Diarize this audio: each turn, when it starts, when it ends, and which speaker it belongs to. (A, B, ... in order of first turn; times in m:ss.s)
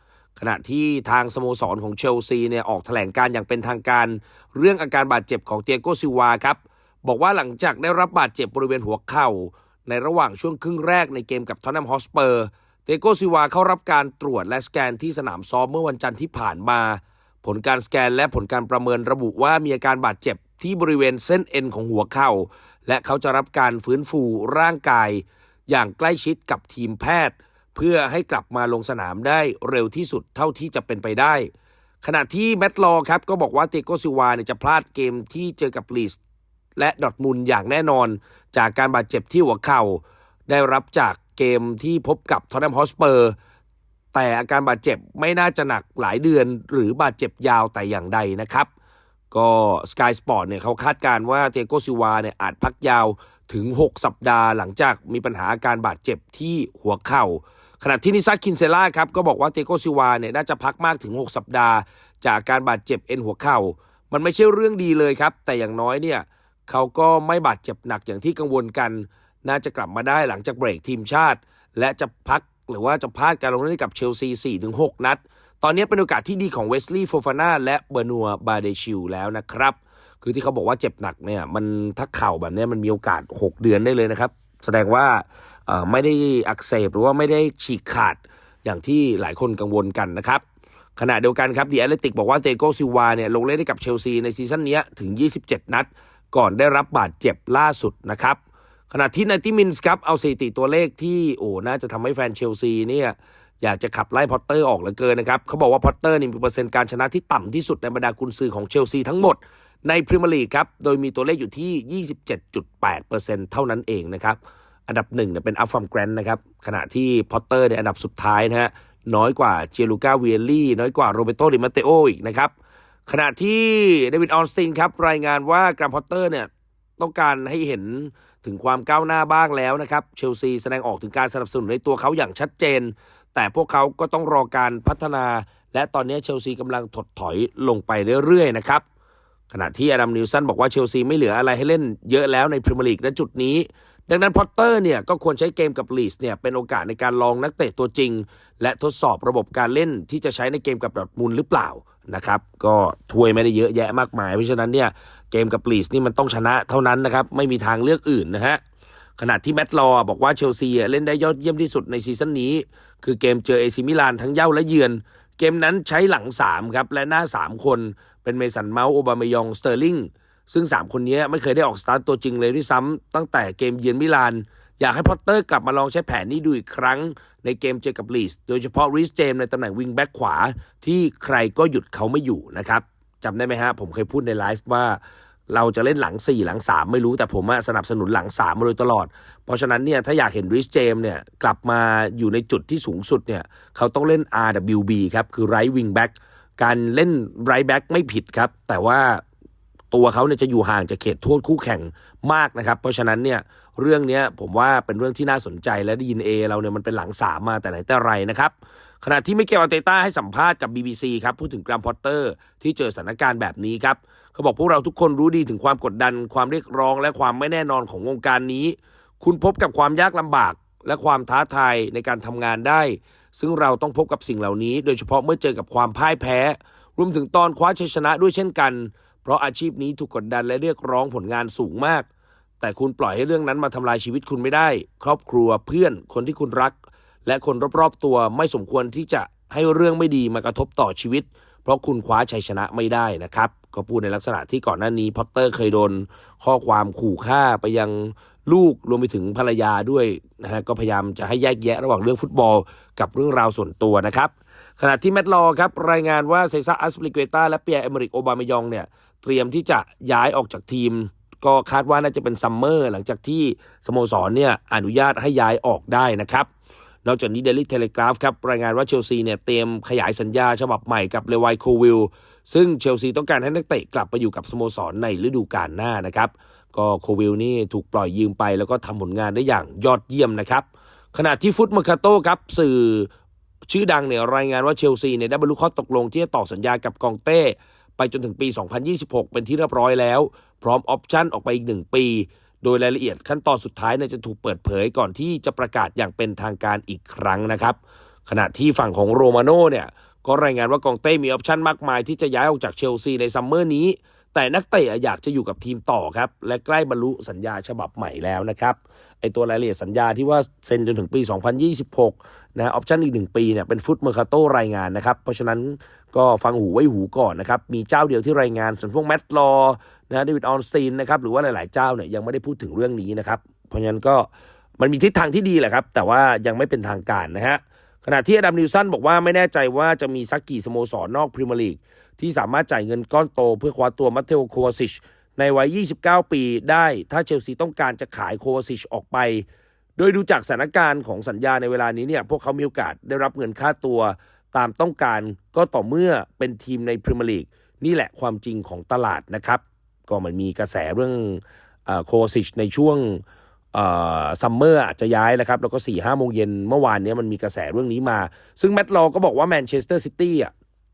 0:00.4-0:31.5 A
0:32.0-0:36.2 A
0:36.8-0:43.3 A
0:44.1-0:48.7 A
0:49.3-1:30.4 A
1:31.0-1:38.4 A
1:38.9-2:02.5 A
2:03.1-2:18.8 A
2:19.5-2:38.6 A
2:39.2-3:19.2 A
3:19.9-3:52.1 A
3:52.6-4:26.5 A
4:27.0-4:43.1 A
4:43.7-5:24.3 A
5:24.8-5:39.4 A
5:40.0-5:53.2 A
5:53.7-6:00.5 A